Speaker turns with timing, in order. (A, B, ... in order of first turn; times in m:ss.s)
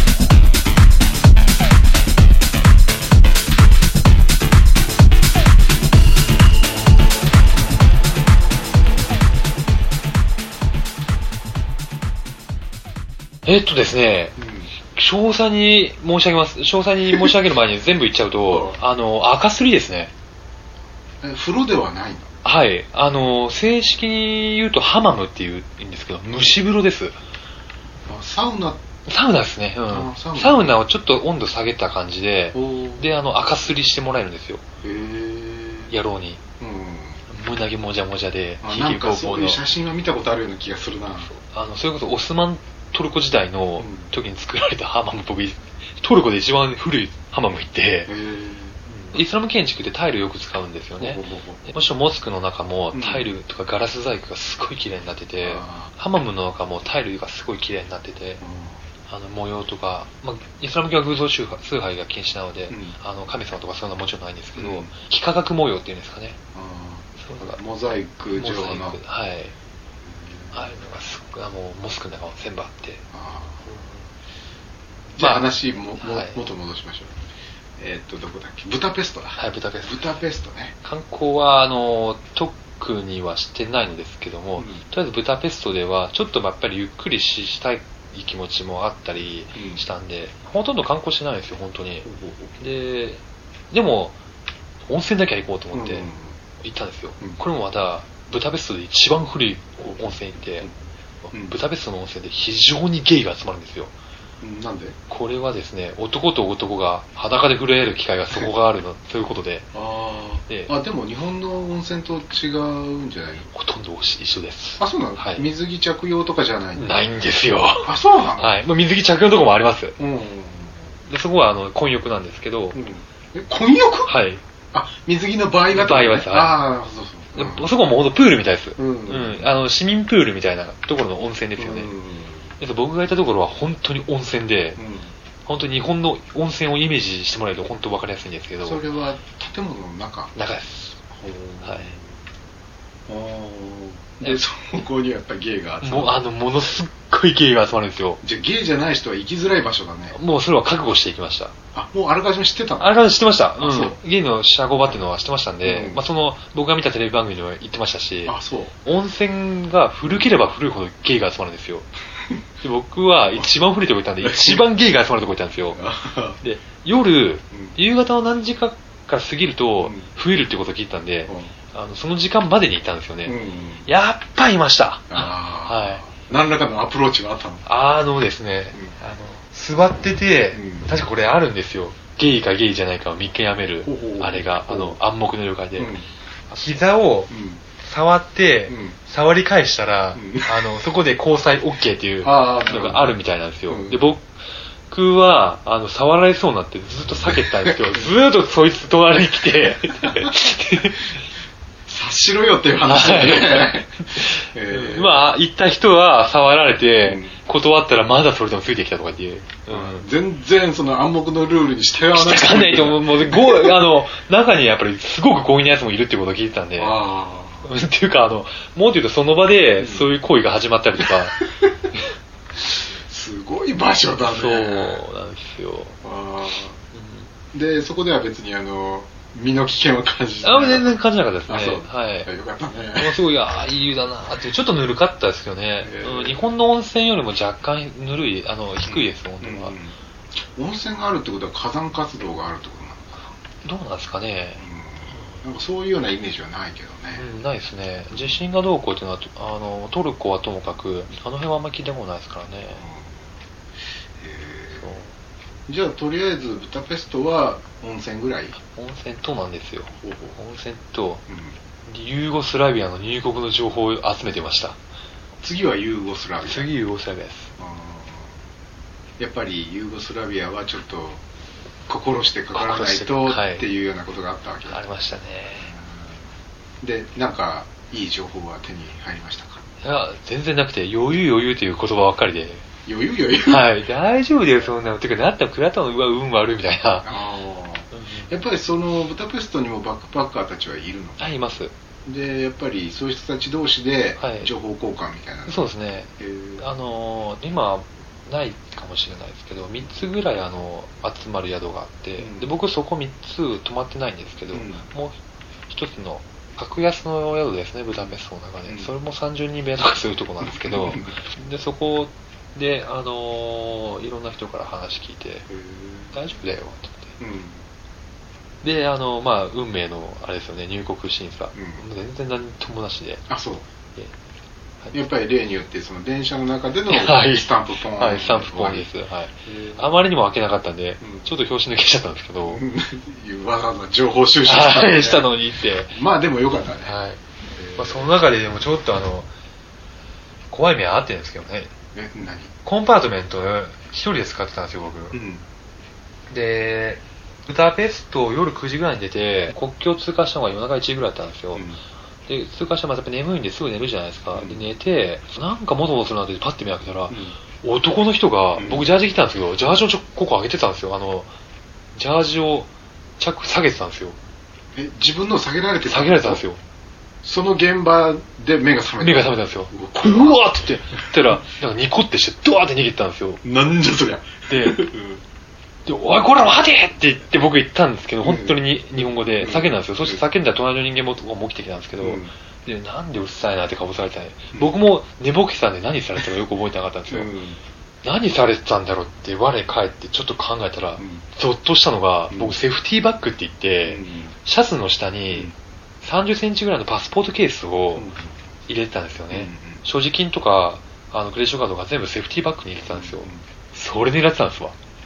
0:13.4-0:14.3 A
0:14.4-0:14.7 B
0:14.9-0:20.1 A
0:18.5-0:18.8 B
0:21.2-0:22.3 B
0:22.4-0:27.2 A
0:28.1-0:28.8 B
0:29.1-0:34.6 A
0:29.9-0:30.8 B
0:32.5-0:33.1 B
0:34.8-0:35.9 B
0:35.9-0:36.4 A
0:36.6-0:37.2 B
0:37.3-0:39.6 A
0:38.6-0:41.3 B
0:41.3-0:48.1 A
0:43.8-0:44.1 B
0:48.1-0:49.2 B
0:48.9-0:58.4 A
0:51.0-0:51.6 B
0:52.9-0:53.3 B
0:55.4-0:55.9 B
0:58.4-0:58.8 B
0:59.1-1:06.4 A
1:02.7-1:03.0 B
1:04.5-1:04.9 B
1:06.5-1:09.0 B
1:07.2-1:07.6 A
1:08.3-1:09.5 A
1:10.1-1:10.5 B
1:10.5-1:13.0 A
1:13.1-1:13.6 B
1:13.6-1:14.0 A
1:15.1-1:17.2 B
1:15.2-1:15.4 A
1:16.0-1:16.4 A
1:17.8-1:20.7 B
1:19.4-1:20.0 A
1:20.8-1:32.1 A
1:24.6-1:24.8 B
1:29.5-1:29.8 B
1:32.0-1:32.6 B
1:32.6-1:34.1 A
1:34.9-1:36.1 A
1:35.7-1:36.4 B
1:36.6-1:40.7 A
1:41.2-1:43.9 A
1:44.4-1:45.0 B
1:45.1-1:49.7 A
1:49.7-1:53.5 B
1:53.5-1:55.4 A
1:54.8-1:56.9 B
1:56.8-2:00.0 A
1:57.8-1:58.6 B
2:00.0-2:00.8 B
2:01.0-2:02.8 A
2:02.7-2:04.2 B
2:04.1-2:04.4 A
2:04.7-2:07.7 B
2:05.7-2:06.6 A
2:07.3-2:11.9 A
2:08.8-2:09.5 B
2:11.6-2:12.5 B
2:12.6-2:14.8 A
2:14.8-2:15.1 B
2:15.4-2:18.8 A
2:18.6-2:20.3 B
2:20.3-2:21.0 A
2:21.1-2:22.1 B
2:21.6-2:22.0 A
2:23.1-2:26.2 B
2:25.8-2:28.2 A
2:28.2-2:30.2 B
2:30.1-2:31.5 A
2:31.7-2:32.9 B
2:32.8-2:41.9 A
2:33.6-2:34.0 B
2:35.6-2:36.0 B
2:38.2-2:38.7 B
2:42.6-2:45.8 A
2:44.2-2:44.6 B
2:45.7-2:46.4 B
2:46.4-2:56.0 A
2:49.8-2:50.1 B
2:51.3-2:51.5 B
2:53.2-2:53.9 B
2:55.1-2:57.6 B
2:57.6-3:05.9 A
3:00.5-3:00.9 B
3:03.8-3:05.0 B
3:05.8-3:06.0 B
3:06.5-3:07.3 A
3:07.3-3:07.6 B
3:07.8-3:14.3 A
3:08.7-3:09.0 B
3:10.2-3:10.8 B
3:12.2-3:13.2 B
3:13.7-3:14.0 B
3:14.9-3:21.2 A
3:17.3-3:18.1 B
3:20.0-3:20.3 B
3:21.9-3:25.3 B
3:22.8-3:30.1 A
3:27.0-3:27.4 B
3:29.7-3:33.8 B
3:32.1-3:37.0 A
3:36.8-3:37.7 B
3:37.6-3:41.4 A
3:39.8-3:40.1 B
3:42.6-3:45.0 B
3:44.3-3:46.0 A
3:46.0-3:46.8 B
3:46.9-3:47.3 A
3:47.5-3:53.2 B
3:50.4-3:52.3 A
3:53.0-3:59.8 A
3:55.8-3:56.5 B
3:58.9-3:59.9 B
4:00.5-4:03.2 B
4:03.6-4:05.4 A
4:04.6-4:07.2 B
4:07.1-4:12.8 A
4:08.1-4:08.4 B
4:12.7-4:13.3 B
4:14.2-4:15.0 B
4:14.8-4:15.1 A
4:15.7-4:18.5 B
4:18.5-4:21.2 A
4:20.0-4:20.4 B
4:21.3-4:21.6 B
4:21.8-4:24.8 A
4:25.4-4:26.7 B
4:26.4-4:27.5 A
4:27.6-4:28.3 B
4:29.2-4:31.2 B
4:31.9-4:34.8 B
4:32.5-4:33.6 A
4:34.7-4:35.7 A
4:35.6-4:36.2 B
4:36.8-4:39.6 B
4:39.8-4:42.6 A
4:42.8-4:43.7 B
4:43.4-4:47.1 A
4:47.0-4:51.3 B
4:47.9-4:48.3 A
4:51.2-4:51.7 A
4:52.0-4:55.7 B
4:54.2-4:54.5 A
4:55.4-5:05.2 A
4:56.2-4:56.6 B
5:02.2-5:02.5 B
5:04.5-5:04.8 B
5:05.7-5:15.5 A
5:07.9-5:08.9 B
5:10.4-5:11.1 B
5:15.5-5:16.1 B
5:16.1-5:17.2 A
5:17.2-5:17.6 B
5:18.6-5:23.2 A
5:21.5-5:21.8 B
5:23.3-5:23.6 B
5:24.9-5:28.9 B
5:26.9-5:32.6 A
5:29.4-5:29.8 B
5:31.0-5:31.2 B
5:32.4-5:35.3 B
5:34.4-5:36.0 A
5:35.9-5:36.9 B
5:36.8-5:37.2 A
5:37.5-5:38.1 B
5:37.7-5:39.3 A
5:40.5-5:41.7 A
5:41.9-5:42.5 B
5:42.6-5:45.2 A
5:45.1-5:45.4 B
5:46.3-5:51.7 A
5:52.3-6:01.3 A
5:54.3-5:54.6 B
5:57.1-5:57.4 B
5:58.6-5:58.8 B
6:01.9-6:04.2 A
6:04.7-6:06.4 B
6:05.8-6:06.6 A
6:07.2-6:11.1 B
6:09.0-6:13.4 A
6:13.4-6:15.2 B
6:14.5-6:14.9 A
6:15.8-6:27.3 A
6:18.2-6:20.2 B
6:22.0-6:22.3 B
6:27.1-6:27.6 B
6:28.0-6:35.5 A
6:31.0-6:31.2 B
6:32.3-6:32.6 B
6:33.8-6:34.3 B
6:36.0-6:38.0 A
6:37.9-6:38.4 B
6:38.7-6:44.7 A
6:39.3-6:39.8 B
6:42.9-6:43.4 B